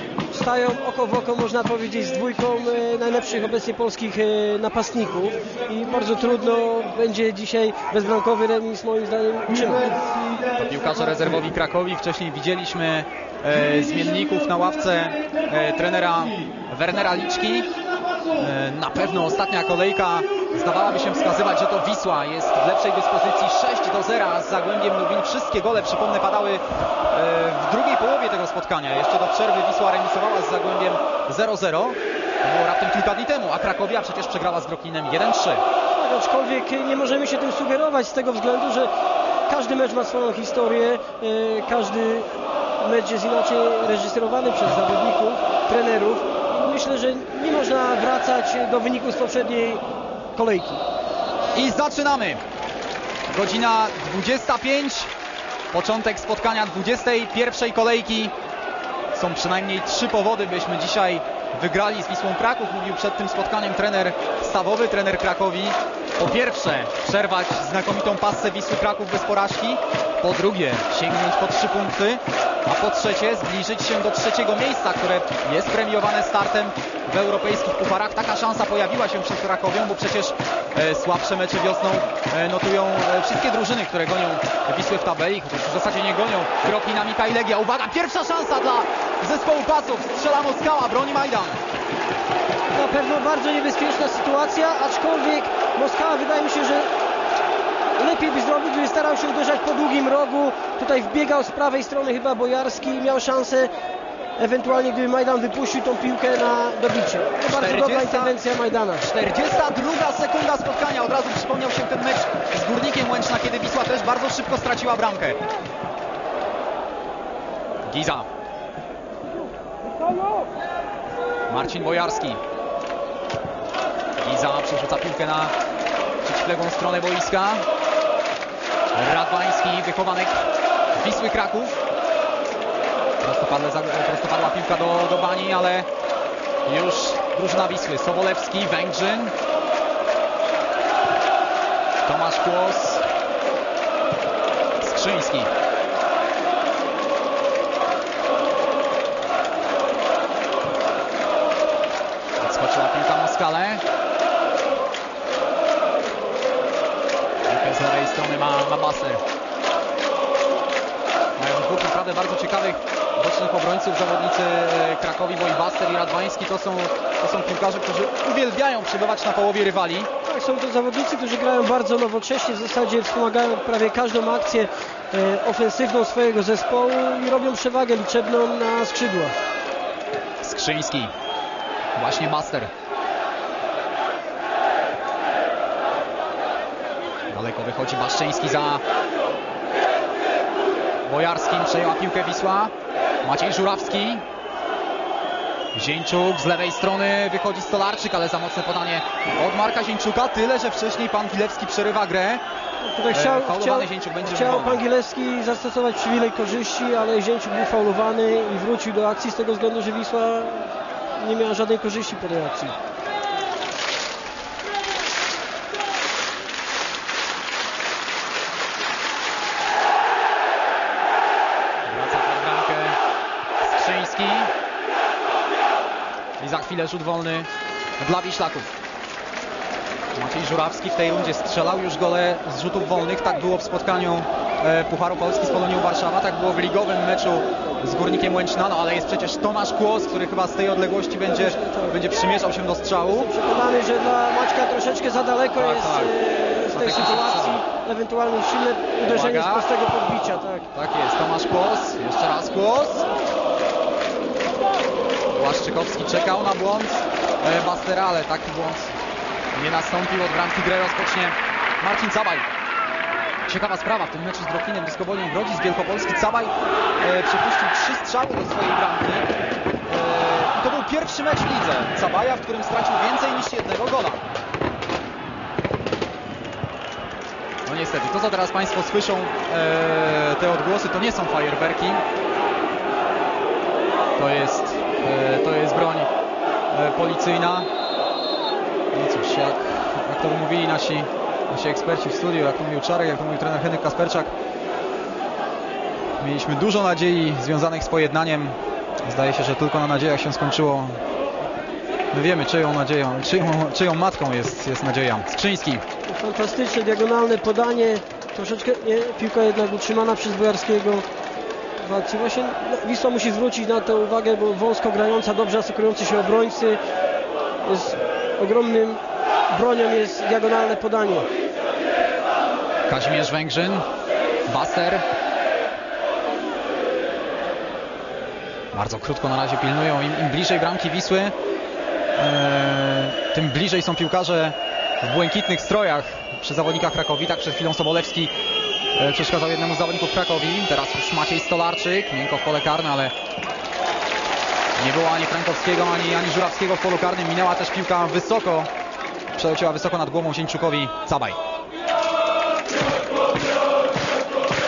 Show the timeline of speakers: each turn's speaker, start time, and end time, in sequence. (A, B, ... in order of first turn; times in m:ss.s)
0:00.3-0:10.0 A
0:10.5-0:17.7 B
0:18.4-0:35.6 B
0:35.9-0:38.9 A
0:39.5-0:42.3 A
0:42.8-0:49.8 A
0:50.3-0:50.8 A
0:51.5-0:52.4 B
0:53.3-0:55.1 B
0:55.7-0:58.3 B
0:59.1-1:31.6 B
1:32.7-1:36.9 A
1:38.0-1:43.7 A
1:44.4-1:49.0 A
1:47.5-1:48.3 B
1:49.0-1:55.4 B
1:57.8-1:58.3 B
2:01.5-2:02.4 B
2:04.2-2:05.5 B
2:06.2-2:07.6 B
2:08.9-2:11.8 B
2:13.2-2:15.9 B
2:16.6-2:19.3 B
2:22.0-2:23.0 B
2:24.8-2:25.5 B
2:32.4-2:33.8 B
2:37.5-2:39.2 B
2:41.4-2:50.1 B
2:50.2-2:59.4 A
3:00.4-3:01.1 B
3:01.9-3:02.7 B
3:07.3-3:08.8 B
3:11.0-3:14.2 B
3:15.7-3:22.4 B
3:22.8-3:32.8 A
3:23.1-3:24.8 B
3:41.8-3:43.0 B
3:43.6-3:44.5 B
3:46.4-3:47.5 B
3:48.0-3:48.7 B
3:50.2-4:03.3 B
4:01.2-4:02.0 A
4:03.0-4:10.7 A
4:05.6-4:06.1 B
4:06.7-4:07.6 B
4:09.0-4:09.6 B
4:10.7-4:13.1 B
4:15.3-4:18.9 B
4:19.5-4:22.4 B
4:23.5-4:29.3 B
4:29.8-4:34.2 B
4:37.6-4:42.0 B
4:44.2-4:46.1 B
4:46.7-4:47.7 B
4:48.9-4:54.3 B
4:56.2-5:01.0 B
5:02.1-5:05.8 B
5:06.1-5:11.0 A
5:11.8-5:16.8 A
5:17.6-5:21.3 A
5:22.9-5:23.8 B
5:24.5-5:25.0 B
5:28.7-5:31.3 B
5:32.2-5:38.3 B
5:39.0-5:43.1 B
5:44.8-5:48.7 B
5:49.3-5:51.4 B